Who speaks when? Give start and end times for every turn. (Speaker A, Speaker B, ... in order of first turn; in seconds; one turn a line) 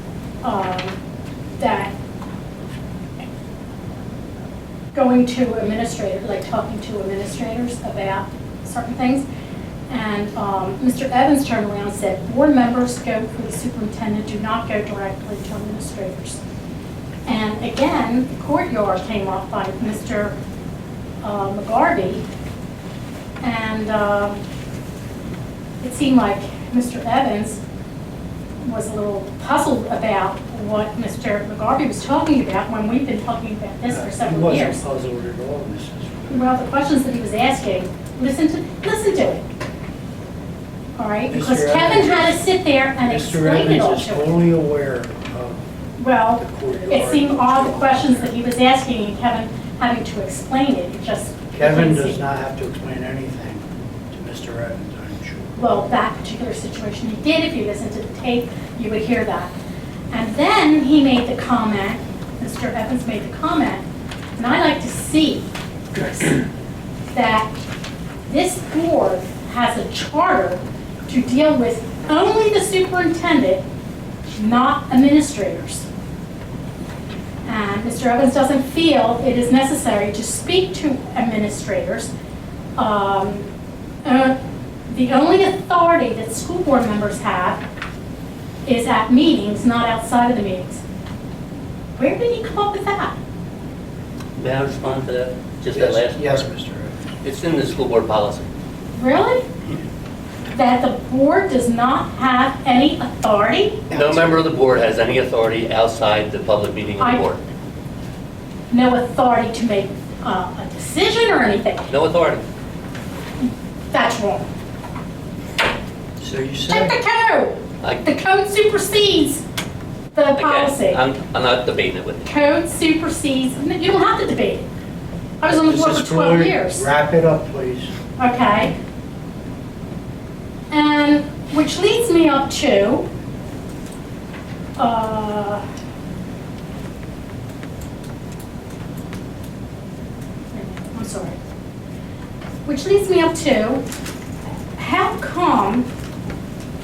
Speaker A: 0.4-0.9
Speaker A: 1.6-1.9
Speaker A: 4.9-9.2
Speaker A: 9.9-16.4
Speaker A: 17.2-20.3
Speaker A: 21.2-22.2
Speaker A: 23.4-24.4
Speaker A: 25.8-27.6
Speaker A: 28.6-34.8
Speaker B: 33.9-36.5
Speaker A: 36.3-39.4
Speaker A: 41.0-44.3
Speaker B: 41.3-42.4
Speaker B: 43.0-45.6
Speaker A: 46.0-52.2
Speaker B: 46.4-48.3
Speaker B: 51.5-55.9
Speaker A: 55.6-59.5
Speaker A: 60.1-63.8
Speaker A: 64.4-66.4
Speaker A: 67.1-67.5
Speaker A: 68.3-73.6
Speaker A: 74.4-75.9
Speaker A: 77.4-82.1
Speaker A: 82.8-83.5
Speaker A: 84.0-84.4
Speaker A: 84.9-87.6
Speaker A: 88.7-90.8
Speaker A: 92.0-93.2
Speaker C: 94.4-96.5
Speaker B: 95.7-97.1
Speaker C: 97.2-98.5
Speaker A: 99.0-99.4
Speaker A: 100.5-103.8
Speaker B: 103.9-104.5
Speaker C: 103.9-107.4
Speaker A: 108.7-111.9
Speaker C: 111.9-112.4
Speaker A: 113.9-114.5
Speaker B: 116.2-117.0
Speaker A: 116.7-119.4
Speaker C: 117.8-118.1
Speaker A: 120.1-121.0
Speaker C: 120.4-122.3
Speaker A: 122.2-124.7
Speaker A: 125.4-126.9
Speaker B: 125.4-127.9
Speaker A: 128.2-128.7
Speaker A: 130.7-133.1
Speaker A: 134.8-135.6
Speaker A: 140.5-141.4
Speaker A: 142.6-143.8
Speaker A: 144.8-145.9